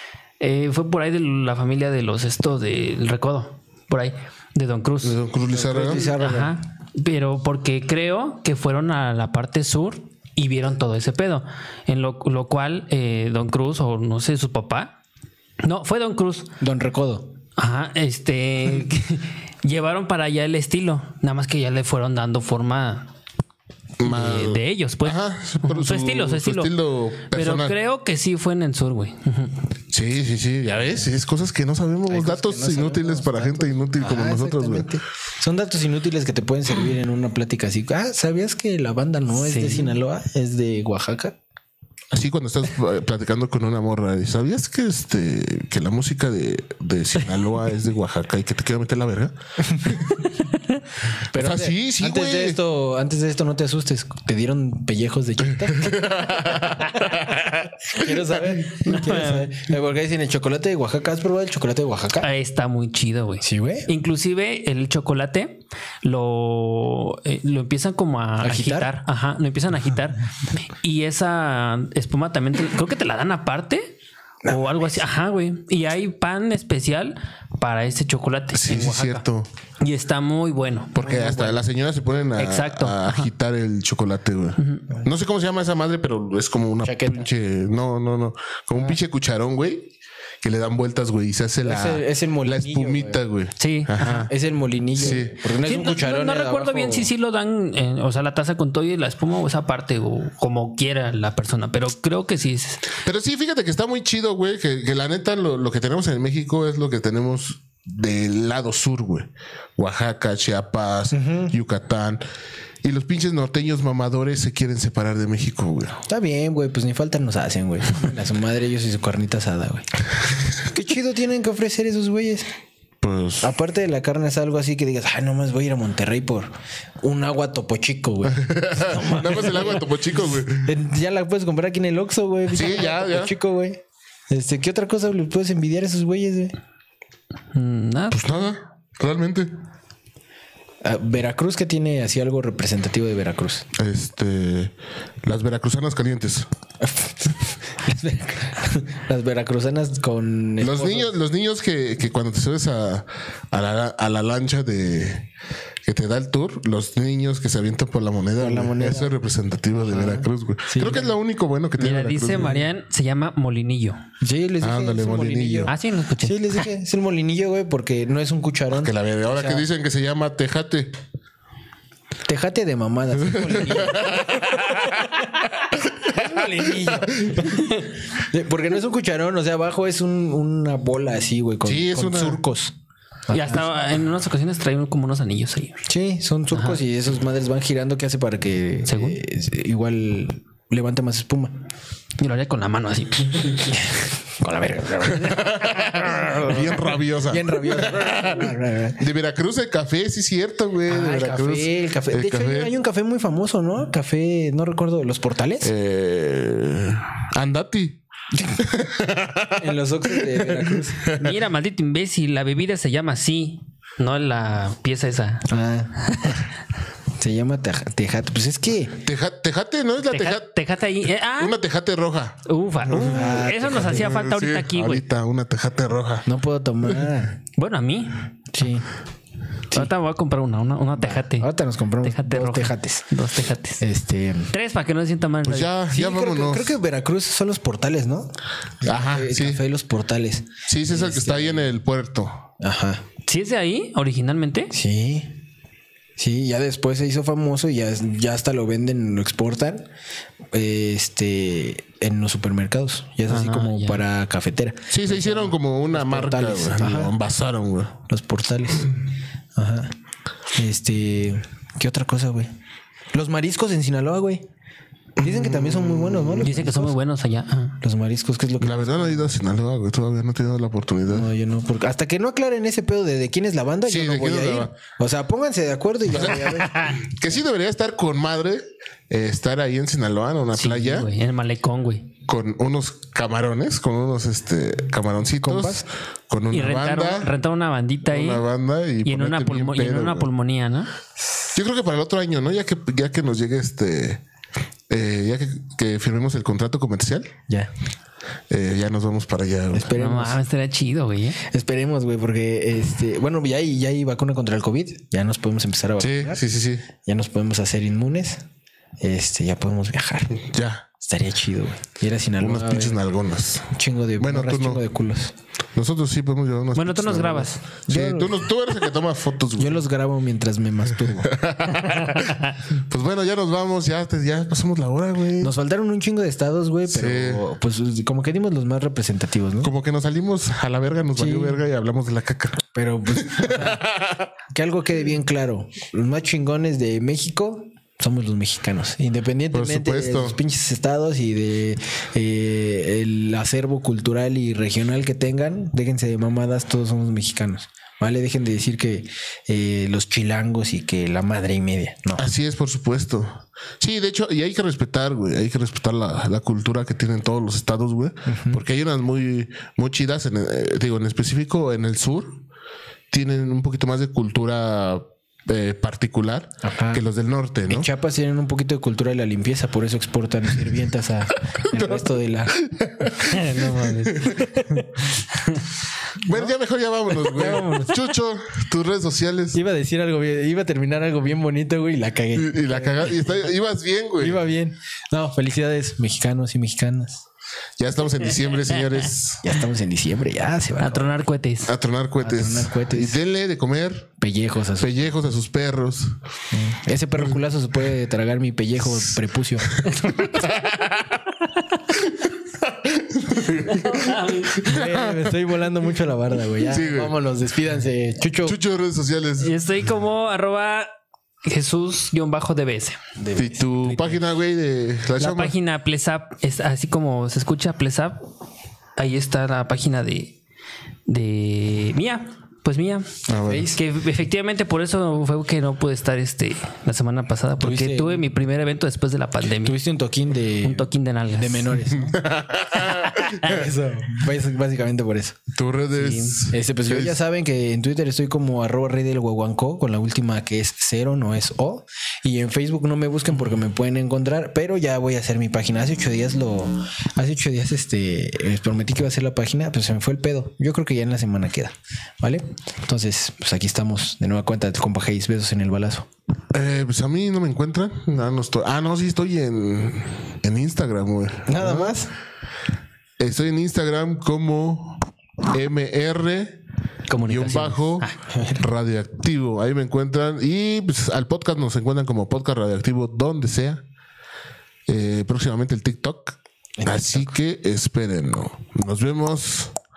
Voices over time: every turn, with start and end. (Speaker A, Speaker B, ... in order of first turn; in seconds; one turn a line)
Speaker A: 0.4-5.2
Speaker B: 5.0-6.0
Speaker C: 5.5-6.6
Speaker A: 5.8-14.9
Speaker A: 15.6-16.5
Speaker C: 16.6-17.3
Speaker A: 17.6-23.1
Speaker B: 24.0-27.8
Speaker A: 24.0-26.7
Speaker A: 27.3-29.6
Speaker B: 29.9-34.9
Speaker C: 32.1-41.4
Speaker A: 39.4-39.9
Speaker B: 42.1-50.1
Speaker C: 49.7-50.0
Speaker B: 51.3-52.6
Speaker C: 51.3-56.7
Speaker B: 55.8-57.8
Speaker C: 57.8-62.3
Speaker B: 58.4-59.0
Speaker A: 58.9-59.5
Speaker A: 62.2-73.9
Speaker C: 63.4-63.9
Speaker C: 68.4-68.9
Speaker A: 74.5-79.2
Speaker B: 78.5-79.5
Speaker A: 79.8-81.4
Speaker B: 80.9-94.3
Speaker C: 81.0-81.5
Speaker A: 82.3-83.3
Speaker A: 84.6-84.8
Speaker C: 86.8-87.2
Speaker C: 91.6-93.2
Speaker A: 93.6-94.1
Speaker C: 94.0-97.1
Speaker B: 95.0-95.3
Speaker A: 95.6-102.8
Speaker B: 103.0-112.2
Speaker C: 111.1-111.5
Speaker B: 112.8-116.0
Speaker C: 116.1-119.9
Speaker C: 120.6-122.5
Speaker B: 123.0-123.5
Speaker C: 123.4-136.5
Speaker B: 128.2-130.7
Speaker B: 132.5-133.3
Speaker A: 137.5-138.2
Speaker B: 138.1-139.5
Speaker C: 140.8-143.7
Speaker B: 143.7-146.5
Speaker C: 146.8-151.1
Speaker B: 150.6-155.3
Speaker B: 155.8-162.6
Speaker C: 158.4-159.1
Speaker C: 159.9-161.1
Speaker A: 161.8-164.0
Speaker C: 164.2-169.7
Speaker B: 164.6-165.7
Speaker A: 165.7-166.6
Speaker B: 168.7-171.0
Speaker C: 172.2-174.4
Speaker B: 173.1-175.2
Speaker C: 176.0-182.7
Speaker B: 176.8-177.5
Speaker B: 181.6-182.4
Speaker C: 183.3-183.7
Speaker A: 183.3-185.8
Speaker C: 185.9-191.6
Speaker A: 186.5-186.8
Speaker A: 188.9-189.2
Speaker A: 192.2-193.7
Speaker C: 193.6-199.0
Speaker B: 195.1-202.7
Speaker C: 200.8-205.7
Speaker B: 205.6-211.4
Speaker C: 209.6-211.1
Speaker A: 211.1-215.5
Speaker C: 215.5-216.4
Speaker A: 216.0-216.4
Speaker C: 217.2-219.0
Speaker B: 219.0-220.4
Speaker A: 220.1-221.6
Speaker B: 221.4-226.3
Speaker A: 222.5-225.0
Speaker C: 223.1-224.1
Speaker C: 226.2-227.4
Speaker A: 227.6-228.2
Speaker C: 228.5-228.9
Speaker A: 229.7-231.5
Speaker C: 230.9-233.1
Speaker A: 232.0-233.8
Speaker C: 233.8-234.5
Speaker A: 234.5-235.7
Speaker B: 235.4-236.8
Speaker C: 235.9-241.7
Speaker B: 238.8-239.6
Speaker B: 240.7-242.4
Speaker C: 242.6-243.0
Speaker A: 243.3-244.7
Speaker C: 244.7-245.3
Speaker C: 246.2-249.9
Speaker C: 250.5-257.1
Speaker A: 253.3-254.0
Speaker B: 254.9-258.0
Speaker C: 258.1-258.9
Speaker C: 259.5-259.9
Speaker C: 260.5-262.5
Speaker C: 263.1-264.4
Speaker B: 265.2-266.5
Speaker C: 265.2-266.9
Speaker A: 266.4-267.8
Speaker C: 267.8-269.2
Speaker B: 268.6-271.3
Speaker C: 271.1-276.8
Speaker B: 273.9-274.7
Speaker B: 276.1-281.1
Speaker A: 276.6-277.0
Speaker A: 280.6-282.1
Speaker B: 282.2-287.3
Speaker C: 285.4-285.9
Speaker A: 286.5-288.4
Speaker B: 288.1-290.3
Speaker A: 289.0-290.9
Speaker B: 291.5-294.2
Speaker B: 294.9-297.3
Speaker B: 298.5-299.9
Speaker C: 299.7-300.4
Speaker A: 300.0-301.4
Speaker C: 301.4-306.4
Speaker B: 306.0-306.9
Speaker C: 307.0-308.4
Speaker C: 309.0-310.4
Speaker B: 310.3-310.9
Speaker C: 311.0-313.0
Speaker B: 312.4-314.8
Speaker C: 313.7-315.3
Speaker B: 315.7-319.8
Speaker A: 316.7-317.6
Speaker C: 317.9-318.5
Speaker C: 319.6-321.3
Speaker B: 321.0-325.5
Speaker C: 325.4-329.7
Speaker B: 326.9-327.4
Speaker B: 329.6-334.3
Speaker C: 331.1-331.6
Speaker C: 332.7-333.8
Speaker C: 334.5-352.2
Speaker B: 339.5-340.4
Speaker B: 352.2-362.4
Speaker C: 358.2-358.6
Speaker B: 363.1-367.9
Speaker C: 366.6-367.1
Speaker C: 367.7-372.6
Speaker B: 371.7-372.0
Speaker B: 372.6-374.4
Speaker A: 373.2-375.6
Speaker B: 376.1-379.6
Speaker C: 376.3-376.5
Speaker C: 377.2-378.1
Speaker C: 379.5-383.4
Speaker B: 382.3-384.4
Speaker C: 384.2-387.2
Speaker B: 387.8-389.4
Speaker C: 389.4-391.1
Speaker A: 390.8-391.7
Speaker B: 391.7-394.2
Speaker C: 392.2-393.2
Speaker C: 394.2-395.1
Speaker B: 394.8-396.2
Speaker C: 396.5-399.7
Speaker B: 399.7-401.2
Speaker B: 402.2-405.3
Speaker A: 403.7-404.8
Speaker C: 404.6-408.6
Speaker B: 406.6-407.1
Speaker B: 408.4-409.5
Speaker A: 409.4-410.9
Speaker A: 411.4-413.0
Speaker C: 413.2-414.2
Speaker B: 413.3-415.5
Speaker A: 415.2-418.2
Speaker A: 419.0-420.4
Speaker A: 421.1-423.1
Speaker B: 423.3-423.7
Speaker C: 423.4-423.8
Speaker A: 423.7-429.8
Speaker C: 427.6-428.2
Speaker C: 429.4-432.2
Speaker A: 430.6-431.8
Speaker B: 431.9-433.4
Speaker A: 432.8-433.4
Speaker C: 433.4-435.4
Speaker B: 435.5-437.2
Speaker A: 435.9-436.4
Speaker C: 436.5-456.1
Speaker B: 456.5-462.0
Speaker C: 461.4-462.1
Speaker B: 463.2-466.6
Speaker A: 467.1-468.1
Speaker B: 467.2-473.8
Speaker C: 468.3-468.6
Speaker B: 474.9-479.7
Speaker C: 476.8-477.3